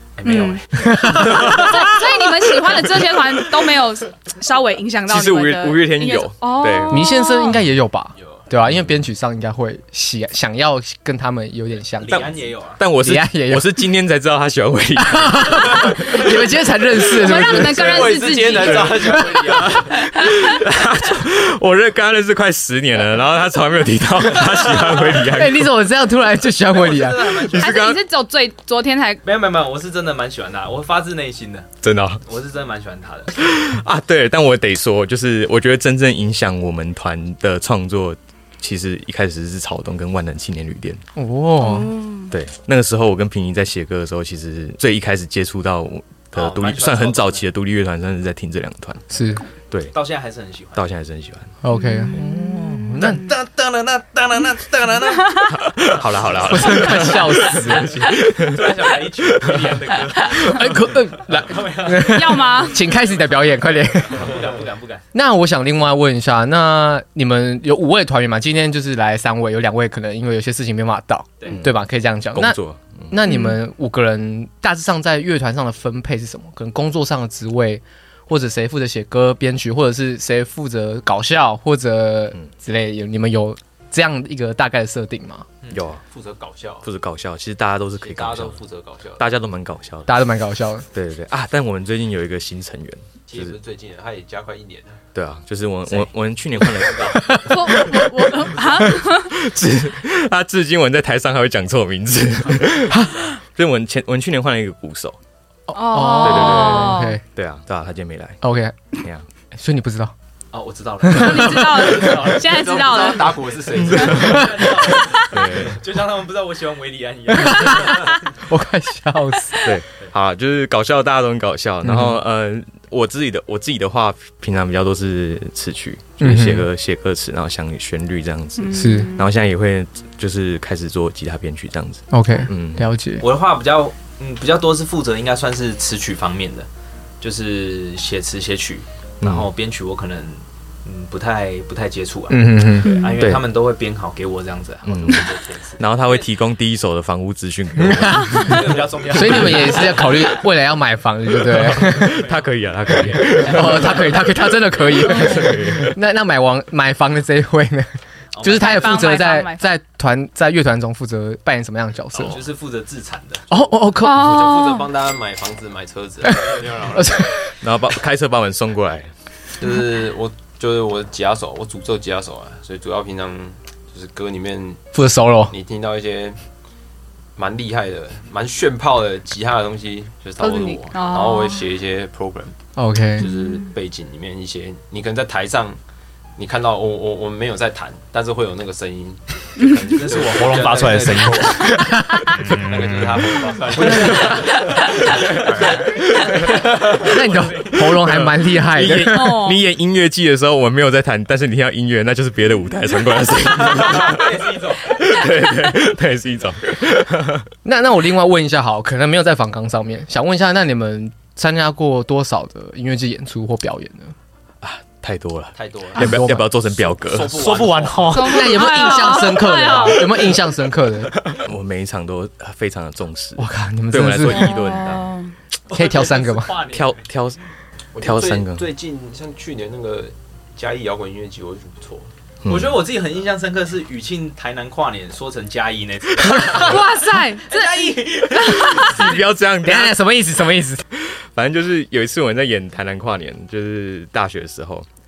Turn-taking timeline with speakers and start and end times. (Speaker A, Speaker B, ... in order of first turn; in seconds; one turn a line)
Speaker A: 0.2-1.4
Speaker B: 0.2-7.6
Speaker C: 0.8-1.6
Speaker D: 1.5-1.9
Speaker D: 5.1-7.2
Speaker C: 6.9-12.3
Speaker D: 8.6-8.9
Speaker A: 12.0-12.8
Speaker D: 12.1-16.3
Speaker C: 13.0-13.7
Speaker C: 15.0-17.9
Speaker B: 17.1-19.3
Speaker E: 17.3-19.9
Speaker A: 17.9-19.6
Speaker D: 18.6-25.7
Speaker A: 24.7-25.2
Speaker C: 25.2-27.4
Speaker A: 26.7-27.9
Speaker D: 27.5-28.0
Speaker B: 27.6-29.2
Speaker A: 29.2-31.7
Speaker D: 31.8-32.2
Speaker A: 32.2-33.4
Speaker D: 33.4-41.0
Speaker C: 41.2-41.9
Speaker B: 41.6-42.3
Speaker D: 42.3-49.0
Speaker A: 46.3-47.4
Speaker C: 49.1-49.4
Speaker A: 49.9-50.8
Speaker D: 50.8-51.5
Speaker C: 51.6-53.2
Speaker B: 51.7-53.2
Speaker A: 52.9-65.1
Speaker D: 55.6-58.7
Speaker C: 56.5-58.1
Speaker D: 59.4-59.7
Speaker C: 60.3-64.4
Speaker B: 62.0-62.8
Speaker C: 65.1-72.6
Speaker D: 72.3-73.1
Speaker C: 73.1-85.5
Speaker B: 73.3-73.6
Speaker D: 85.7-86.0
Speaker E: 86.1-86.9
Speaker D: 86.8-88.6
Speaker E: 88.0-89.2
Speaker D: 89.2-90.2
Speaker C: 90.1-90.9
Speaker D: 90.9-93.6
Speaker E: 93.3-95.0
Speaker D: 95.1-97.5
Speaker B: 97.3-99.3
Speaker D: 99.0-105.2
Speaker C: 102.9-103.2
Speaker C: 105.7-107.2
Speaker B: 105.7-107.2
Speaker D: 106.2-108.4
Speaker C: 108.4-108.8
Speaker D: 109.0-109.3
Speaker C: 109.5-110.1
Speaker A: 110.5-113.3
Speaker C: 111.0-111.8
Speaker B: 111.1-114.1
Speaker E: 112.4-114.7
Speaker D: 113.7-114.6
Speaker A: 113.9-118.2
Speaker B: 115.0-115.3
Speaker D: 115.3-115.8
Speaker C: 117.4-119.7
Speaker D: 119.6-132.8
Speaker C: 121.8-122.2
Speaker C: 126.2-126.7
Speaker B: 128.6-129.2
Speaker C: 128.7-129.1
Speaker C: 132.1-133.2
Speaker A: 133.2-136.7
Speaker A: 137.2-146.3
Speaker D: 139.2-139.5
Speaker C: 142.3-142.9
Speaker B: 142.8-143.2
Speaker D: 143.2-143.4
Speaker D: 144.9-145.3
Speaker D: 145.8-149.7
Speaker C: 147.8-152.3
Speaker A: 148.3-150.3
Speaker D: 151.4-156.0
Speaker A: 152.0-154.1
Speaker C: 153.1-162.4
Speaker B: 155.1-155.5
Speaker A: 158.3-159.1
Speaker B: 158.5-159.6
Speaker A: 162.1-163.5
Speaker C: 163.5-164.6
Speaker B: 164.0-164.9
Speaker E: 164.1-167.4
Speaker C: 166.2-167.6
Speaker D: 167.6-169.1
Speaker E: 169.6-174.9
Speaker C: 174.9-175.5
Speaker E: 175.5-176.4
Speaker E: 177.4-182.6
Speaker B: 180.4-181.6
Speaker C: 182.8-183.3
Speaker E: 183.2-185.8
Speaker B: 183.2-183.7
Speaker E: 186.4-196.2
Speaker B: 189.6-190.0
Speaker A: 189.9-194.5
Speaker C: 191.7-192.3
Speaker C: 193.8-194.3
Speaker A: 195.2-197.9
Speaker C: 196.8-199.4
Speaker D: 197.8-207.5
Speaker B: 199.1-199.6
Speaker A: 203.6-205.1
Speaker C: 207.6-214.2
Speaker D: 214.6-217.5
Speaker A: 215.6-215.9
Speaker E: 215.8-216.2
Speaker C: 216.0-216.5
Speaker E: 216.7-218.2
Speaker A: 217.3-219.1
Speaker B: 218.1-220.2
Speaker C: 218.2-221.2
Speaker D: 221.3-225.2
Speaker C: 223.4-224.6
Speaker B: 224.3-225.3
Speaker A: 225.7-227.0
Speaker C: 225.7-226.6
Speaker D: 226.7-227.4
Speaker E: 227.9-232.1
Speaker D: 228.0-228.7
Speaker D: 232.4-232.8
Speaker A: 232.4-239.0
Speaker B: 236.5-239.0
Speaker D: 238.7-240.0
Speaker C: 239.6-240.8
Speaker D: 240.9-244.9